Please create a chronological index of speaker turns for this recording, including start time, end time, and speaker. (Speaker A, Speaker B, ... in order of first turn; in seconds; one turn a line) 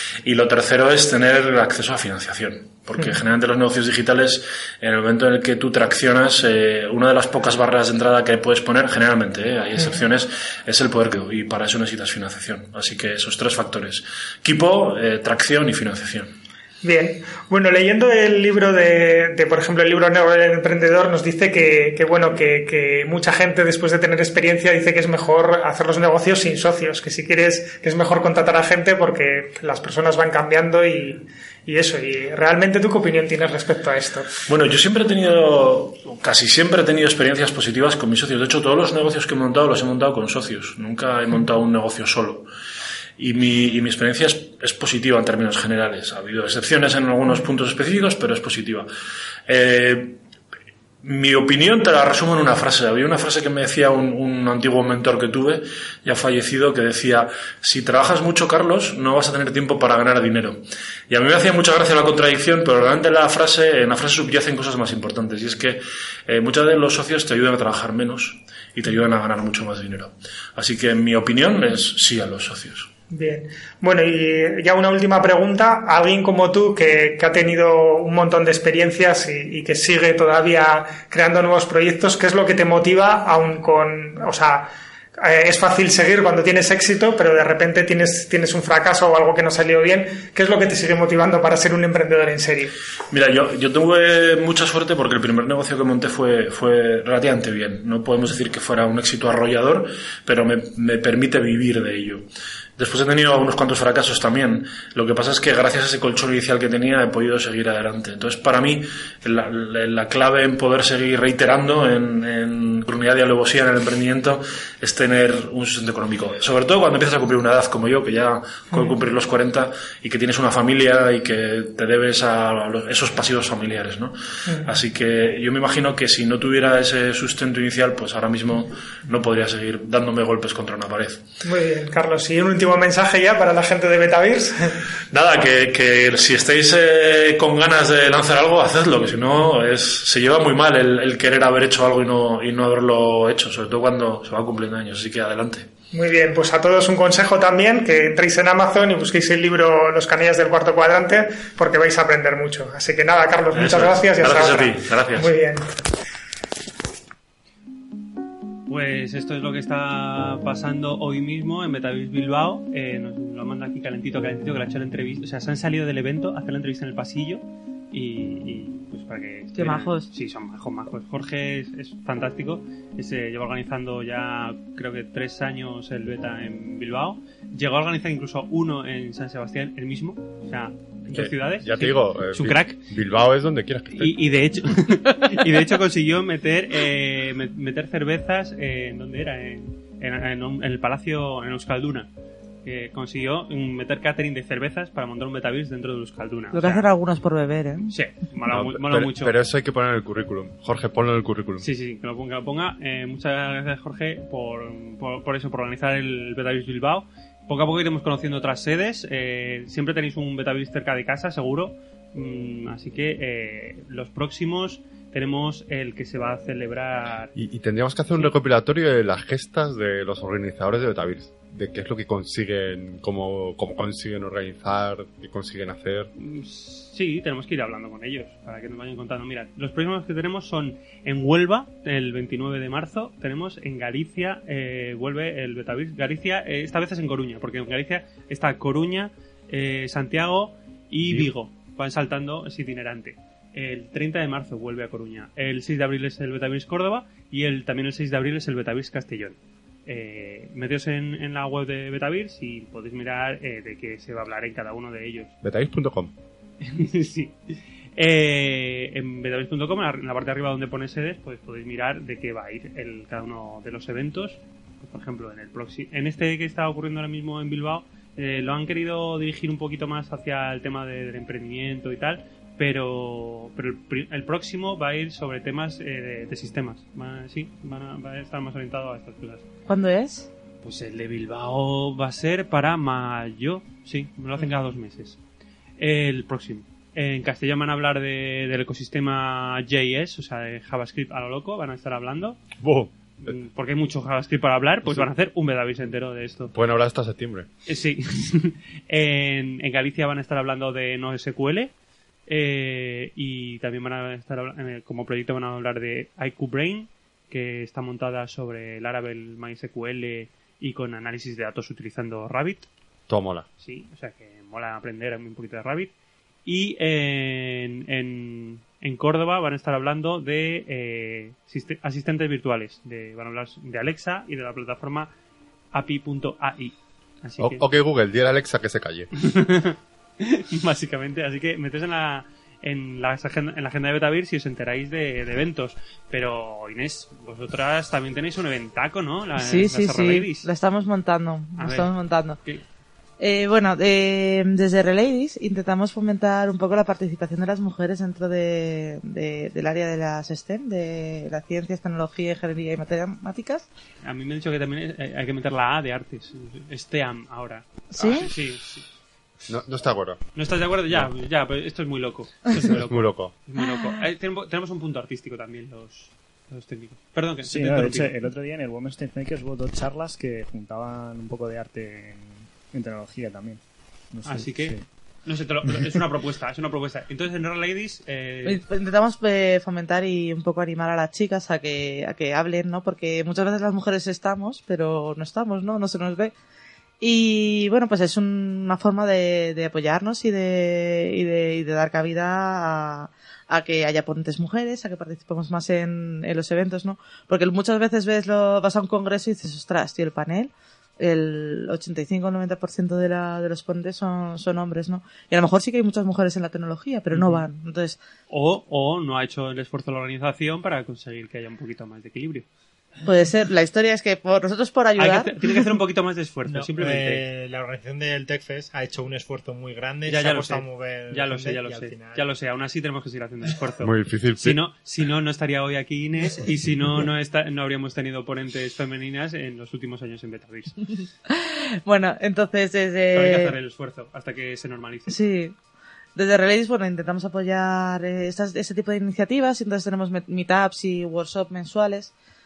Speaker A: 0.2-16.3
Speaker B: 16.8-34.4
Speaker A: 34.5-42.5
Speaker A: 43.2-48.9
Speaker A: 49.5-50.2
Speaker A: 51.0-72.9
Speaker B: 73.1-92.7
Speaker A: 93.1-102.2
Speaker A: 102.8-131.3
Speaker B: 131.4-134.8
Speaker A: 135.1-145.7
Speaker B: 145.9-155.7
Speaker A: 153.5-155.3
Speaker C: 158.7-182.8
Speaker D: 169.6-170.1
Speaker E: 181.1-184.2
Speaker C: 183.9-192.1
Speaker C: 192.7-196.9
Speaker D: 196.5-197.9
Speaker C: 197.9-199.3
Speaker E: 198.5-201.7
Speaker C: 201.6-217.3
Speaker E: 217.3-226.1
Speaker C: 226.2-255.3
Speaker E: 255.4-256.1
Speaker C: 256.6-257.4
Speaker C: 258.0-279.4
Speaker D: 279.7-280.3
Speaker C: 280.6-285.2
Speaker C: 285.8-292.5
Speaker E: 292.6-293.3
Speaker C: 293.2-296.5
Speaker E: 296.5-297.5
Speaker C: 297.7-301.7
Speaker C: 302.3-312.7
Speaker E: 313.1-313.5
Speaker C: 313.6-315.9
Speaker C: 316.4-325.1
Speaker C: 325.7-327.6
Speaker E: 327.4-329.1
Speaker C: 329.2-340.5
Speaker D: 339.4-342.4
Speaker C: 341.6-341.9
Speaker D: 343.2-353.7
Speaker C: 354.0-358.8
Speaker D: 357.9-358.3
Speaker E: 359.5-360.2
Speaker C: 360.4-368.2
Speaker E: 362.6-363.3
Speaker F: 367.4-373.6
Speaker F: 374.1-374.9
Speaker C: 374.2-378.6
Speaker D: 378.4-386.3
Speaker D: 387.0-408.0
Speaker C: 407.1-407.5
Speaker C: 408.3-412.5
Speaker D: 413.1-415.6
Speaker C: 415.0-417.2
Speaker G: 416.5-422.3
Speaker C: 420.1-430.8
Speaker E: 423.8-424.6
Speaker D: 431.3-433.6
Speaker C: 433.1-435.2
Speaker D: 435.1-435.6
Speaker D: 436.2-442.1